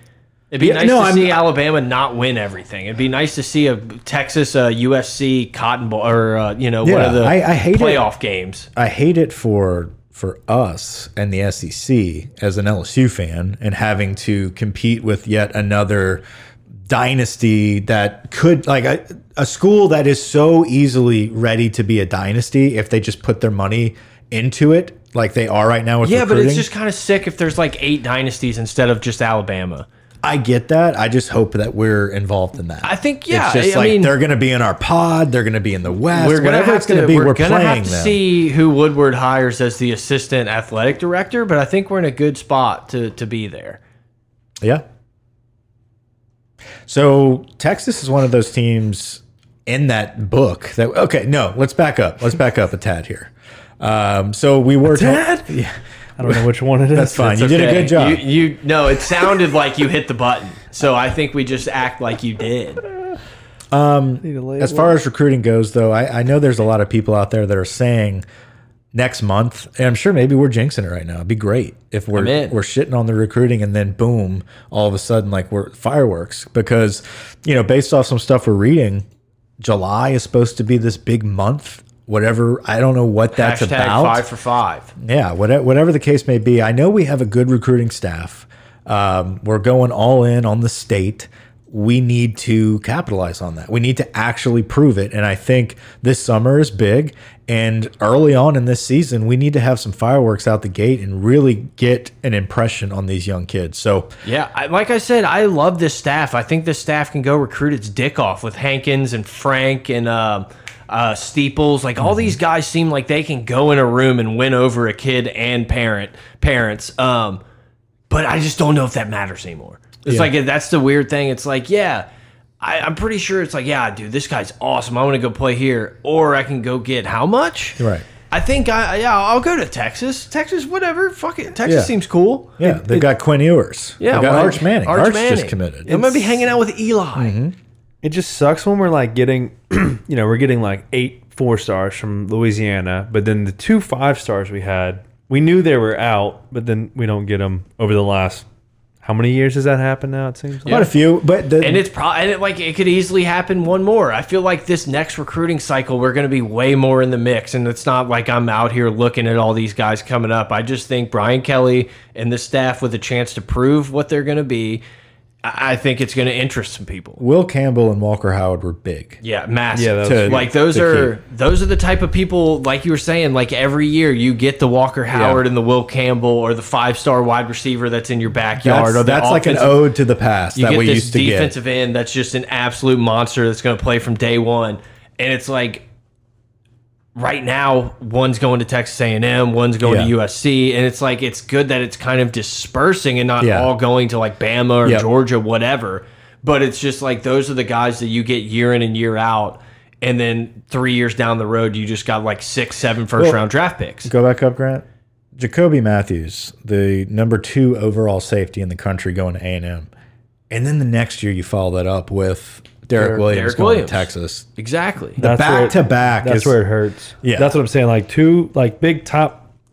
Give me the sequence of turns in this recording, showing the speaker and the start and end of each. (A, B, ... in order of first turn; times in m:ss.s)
0:00.5-0:08.7 A
0:00.6-0:01.4 B
0:06.8-0:08.1 B
0:08.8-0:16.2 B
0:16.9-0:26.7 B
0:26.0-0:29.9 A
0:30.2-0:38.2 B
0:32.8-0:34.1 A
0:36.1-0:43.8 A
0:46.9-0:58.2 B
0:54.8-0:55.5 C
0:56.2-0:57.5 C
0:57.2-1:02.8 A
1:03.7-1:08.2 B
1:04.2-1:05.0 C
1:08.9-1:19.0 B
1:12.1-1:12.6 A
1:19.6-1:24.2 B
1:23.3-1:24.9 A
1:25.0-1:44.1 B
1:44.2-1:57.4 A
1:52.0-1:52.4 B
1:58.1-2:02.0 A
2:02.6-2:07.8 A
2:07.8-2:08.0 B
2:08.3-2:13.0 A
2:11.6-2:11.9 B
2:12.6-2:16.0 B
2:14.0-2:17.4 A
2:17.2-2:17.5 B
2:18.0-2:28.4 C
2:29.0-2:30.8 C
2:30.6-2:31.8 B
2:31.6-2:44.8 A
2:45.4-2:47.2 A
2:47.2-2:49.2 B
2:49.2-2:59.8 A
2:49.7-2:50.5 C
2:50.0-2:51.1 B
2:55.1-2:55.4 B
2:58.6-3:01.5 B
3:00.5-3:05.8 A
3:07.1-3:24.1 A
3:09.8-3:10.1 B
3:13.4-3:13.7 B
3:23.2-3:23.4 B
3:24.0-3:24.8 B
3:25.4-3:29.9 B
3:30.5-3:34.4 B
3:33.0-3:35.2 A
3:35.2-3:36.6 B
3:35.2-3:39.4 C
3:37.2-3:37.6 B